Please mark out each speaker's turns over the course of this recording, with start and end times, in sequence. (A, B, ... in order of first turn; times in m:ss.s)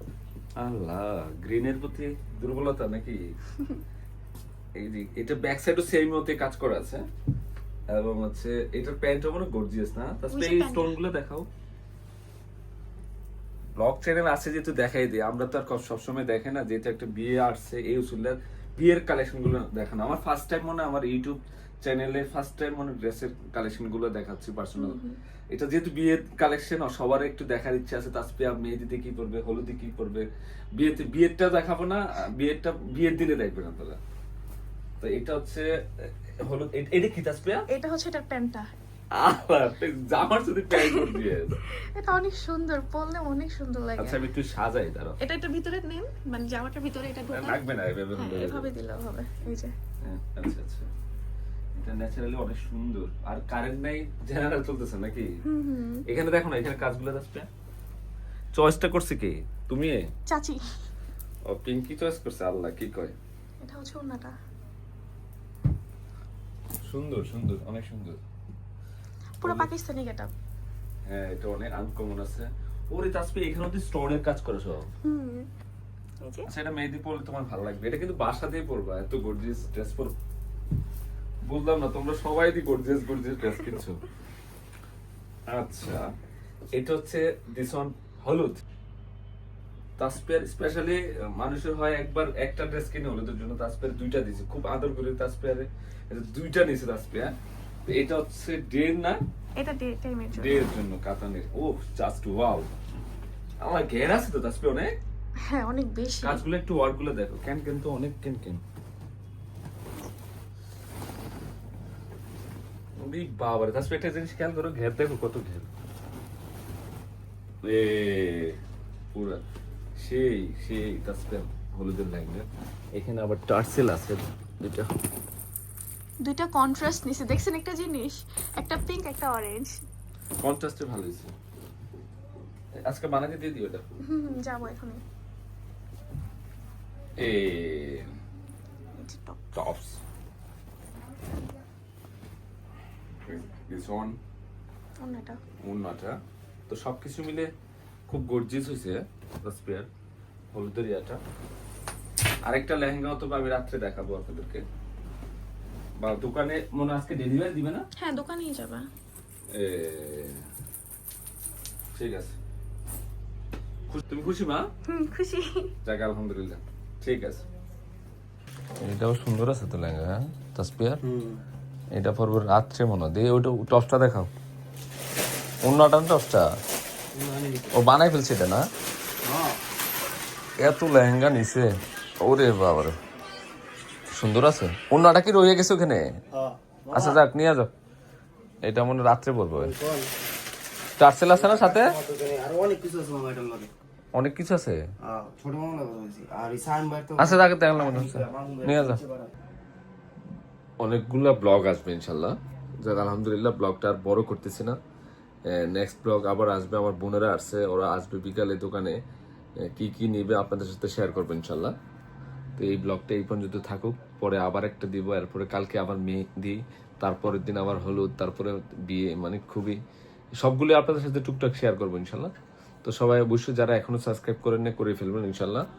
0:00.6-0:03.2 A
0:04.8-0:07.0 A
0:07.9-0:11.5 A
0:10.3-0:11.0 B
0:13.8-0:25.0 A
0:24.8-0:25.2 B
0:25.5-0:34.0 A
0:35.0-0:37.6 A
0:37.7-0:38.7 B
0:39.1-0:41.6 A
0:41.7-0:44.2 B
0:44.0-0:45.2 A
0:45.2-0:47.6 B
0:47.3-0:48.7 A
0:48.1-0:49.7 B
0:50.0-0:50.9 A
0:51.7-0:55.4 A
0:55.4-0:56.0 B
0:56.0-0:57.5 A
0:58.5-1:00.1 A
1:00.3-1:00.6 B
1:01.5-1:03.1 A
1:03.6-1:04.4 B
1:06.8-1:08.2 A
1:09.4-1:10.3 B
1:09.4-1:09.7 A
1:11.0-1:14.9 A
1:15.0-1:15.5 B
1:16.4-1:20.1 A
1:21.4-1:24.0 A
1:25.5-1:26.0 A
1:26.7-1:28.6 A
1:30.0-1:37.3 A
1:37.9-1:39.2 A
1:39.6-1:40.7 B
1:40.3-1:42.7 A
1:43.6-1:44.9 A
1:45.4-1:46.4 B
1:46.2-1:48.6 A
1:53.0-1:55.7 A
1:57.6-1:58.6 A
1:59.1-1:59.4 A
2:00.0-2:04.9 A
2:06.2-2:09.8 B
2:10.4-2:11.3 A
2:12.8-2:13.8 A
2:14.0-2:15.0 B
2:17.2-2:18.1 A
2:19.0-2:19.4 B
2:19.5-2:20.0 A
2:23.2-2:24.2 A
2:25.0-2:25.4 B
2:25.6-2:26.2 A
2:26.7-2:27.5 A
2:28.1-2:29.9 A
2:30.5-2:31.2 A
2:32.4-2:34.6 A
2:36.0-2:37.9 A
2:38.0-2:38.9 B
2:39.5-2:40.4 A
2:41.9-2:42.4 A
2:43.9-2:44.7 A
2:44.8-2:45.7 B
2:45.8-2:47.4 A
2:48.8-2:51.0 A
2:51.0-2:51.4 C
2:51.9-2:54.3 A
2:55.6-2:56.5 A
2:57.1-2:57.7 C
2:57.7-2:58.6 A
2:59.2-2:59.6 C
3:00.6-3:03.0 A
3:04.1-3:06.1 A
3:06.4-3:07.2 C
3:06.9-3:07.7 A
3:08.6-3:09.7 A
3:09.6-3:10.1 C
3:11.0-3:12.0 A
3:11.4-3:13.7 C
3:14.1-3:14.8 A
3:15.0-3:19.3 C
3:17.2-3:19.0 A
3:20.8-3:24.8 A
3:25.5-3:29.0 A
3:29.6-3:31.7 A
3:32.6-3:39.8 A
3:40.4-3:42.3 A
3:42.8-3:45.6 A